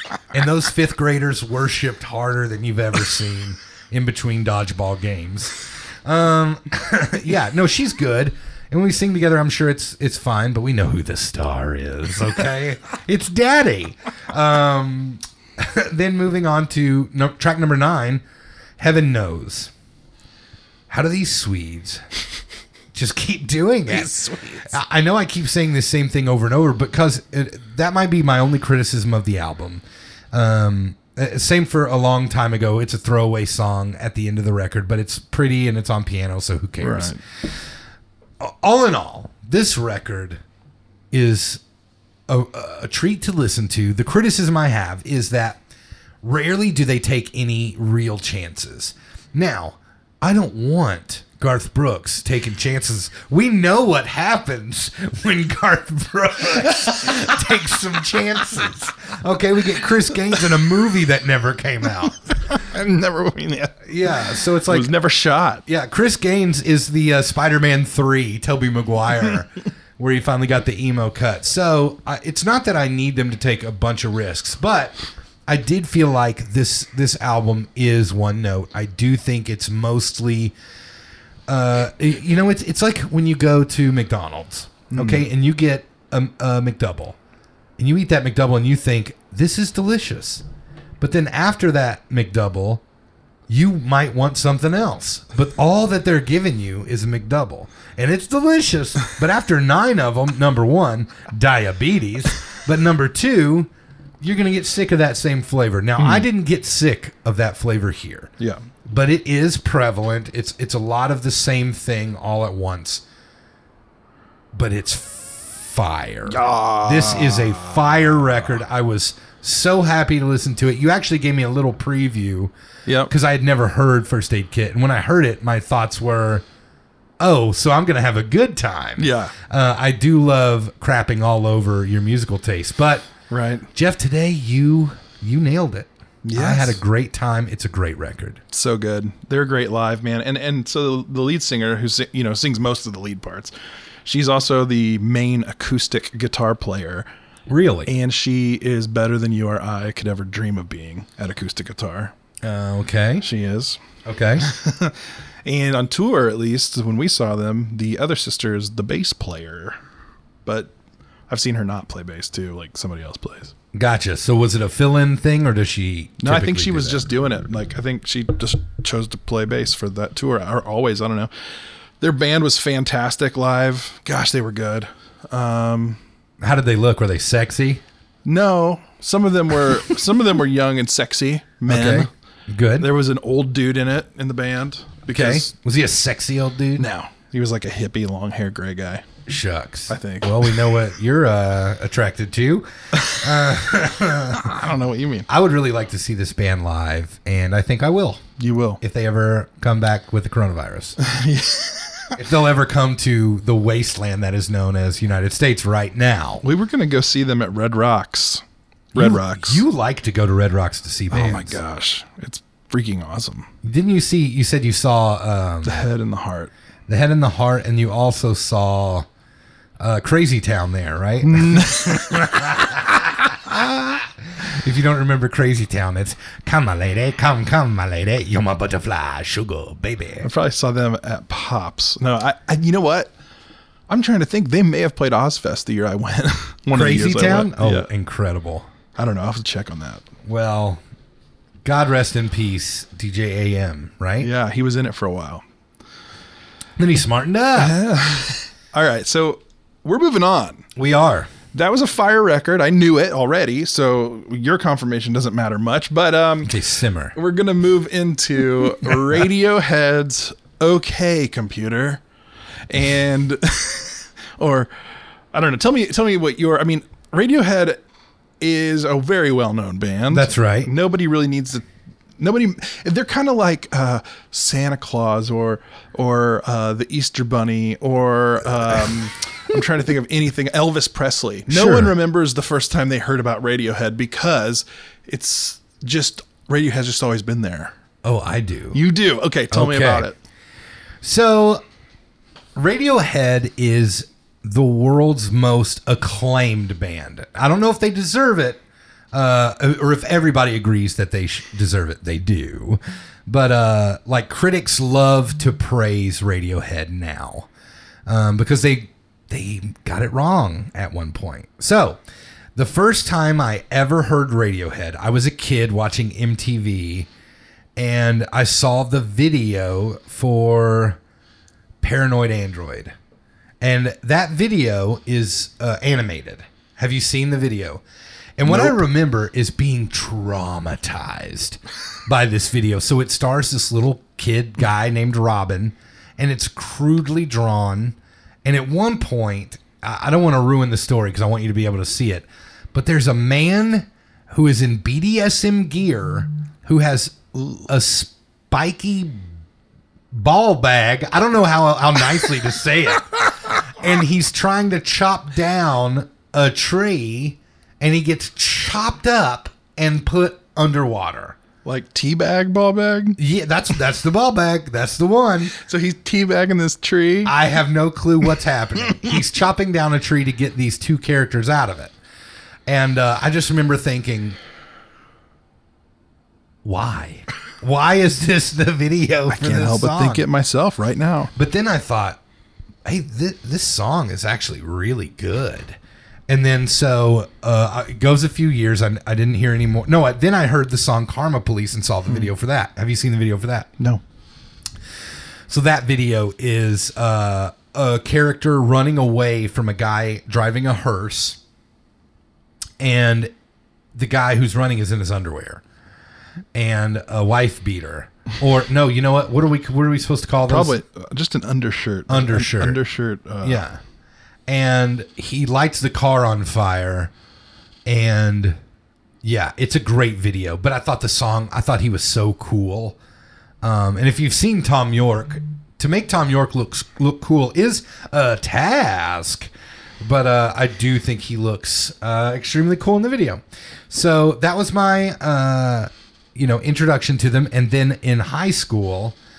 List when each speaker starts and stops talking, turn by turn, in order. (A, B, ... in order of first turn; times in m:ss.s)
0:00.3-0:18.2 A
0:18.8-0:19.7 A
0:20.9-0:22.0 A
0:22.9-0:24.1 A
0:23.9-0:24.7 B
0:24.6-0:37.2 A
0:36.8-0:37.2 B
0:38.4-0:40.4 A
0:41.1-0:41.6 A
0:42.3-0:45.6 A
0:46.2-1:02.6 A
1:02.5-1:05.6 B
1:03.8-1:04.9 A
1:05.6-1:20.5 A
1:21.5-1:27.2 A
1:24.9-1:25.2 B
1:27.8-1:30.4 A
1:31.0-1:32.8 A
1:33.5-1:43.7 A
1:44.2-1:48.3 A
1:46.0-1:46.3 B
1:48.8-1:53.0 A
1:54.5-2:02.5 A
1:56.3-1:58.3 B
2:02.8-2:03.1 B
2:03.1-2:06.4 A
2:07.2-2:13.1 A
2:09.0-2:09.3 B
2:13.3-2:13.7 B
2:13.7-2:18.4 A
2:16.2-2:16.8 B
2:18.5-2:23.5 B
2:24.0-2:27.0 B
2:27.5-2:27.9 A
2:27.9-2:32.1 B
2:32.4-2:33.2 A
2:33.2-2:33.8 B
2:34.0-2:34.5 A
2:34.4-2:39.8 B
2:40.4-2:40.7 B
2:41.3-2:43.5 B
2:43.7-2:47.1 A
2:46.2-2:51.3 B
2:52.0-2:56.0 B
2:56.4-2:57.8 A
2:58.2-3:02.1 B
3:01.7-3:02.9 A
3:02.8-3:05.5 B
3:05.1-3:06.9 A
3:06.8-3:09.0 B
3:09.3-3:14.6 A
3:09.9-3:10.7 B
3:14.3-3:15.3 B
3:15.3-3:18.2 A
3:18.4-3:18.8 B
3:18.8-3:21.0 A
3:21.0-3:22.2 B
3:22.2-3:26.4 A
3:26.4-3:28.4 B
3:28.9-3:29.6 B
3:29.0-3:31.6 A
3:31.1-3:33.5 B
3:33.6-3:35.8 A
3:35.6-3:36.5 B
3:36.9-3:39.0 A
3:39.8-3:50.3 A
3:41.2-3:42.4 B
3:50.2-3:53.1 B
3:53.9-3:57.9 B
3:56.7-3:58.7 A
3:59.0-4:00.0 B
4:00.2-4:00.8 A
4:01.6-4:04.3 A
4:04.2-4:05.4 B
4:06.8-4:07.8 A
4:07.6-4:10.6 B
4:10.8-4:11.3 A
4:11.5-4:16.6 B
4:16.5-4:17.1 A
4:17.1-4:22.0 B
4:22.7-4:24.7 B
4:25.3-4:27.8 B
4:28.4-4:31.7 B
4:30.1-4:30.7 A
4:32.2-4:47.7 B
4:41.5-4:41.9 A
4:48.0-4:48.8 A
4:48.7-4:50.2 B
4:49.5-4:50.1 A
4:51.0-4:51.6 A
4:52.6-4:58.6 A
4:59.1-5:07.5 A
5:08.1-5:12.0 A
5:12.6-5:17.1 A
5:17.8-5:21.0 A
5:21.8-5:22.9 A
5:23.6-5:27.8 A
5:28.4-5:49.3 A
5:28.5-5:28.8 B
5:50.1-6:01.4 A
6:01.6-6:03.2 B
6:03.2-6:05.5 A
6:05.5-6:07.3 B
6:07.2-6:11.9 A
6:12.7-6:14.4 A
6:16.6-6:20.2 A
6:19.3-6:21.3 B
6:21.3-6:22.2 A
6:22.8-6:25.8 A
6:26.3-6:33.7 A
6:35.5-6:41.4 A
6:42.8-6:43.3 A
6:43.9-6:45.6 A
6:46.5-6:50.8 A
6:50.4-6:53.6 B
6:52.1-6:52.8 A
6:53.4-6:53.8 A
6:54.5-6:57.1 A
6:57.8-6:58.6 A
6:59.2-7:03.0 A
7:03.6-7:09.5 A
7:10.0-7:19.2 A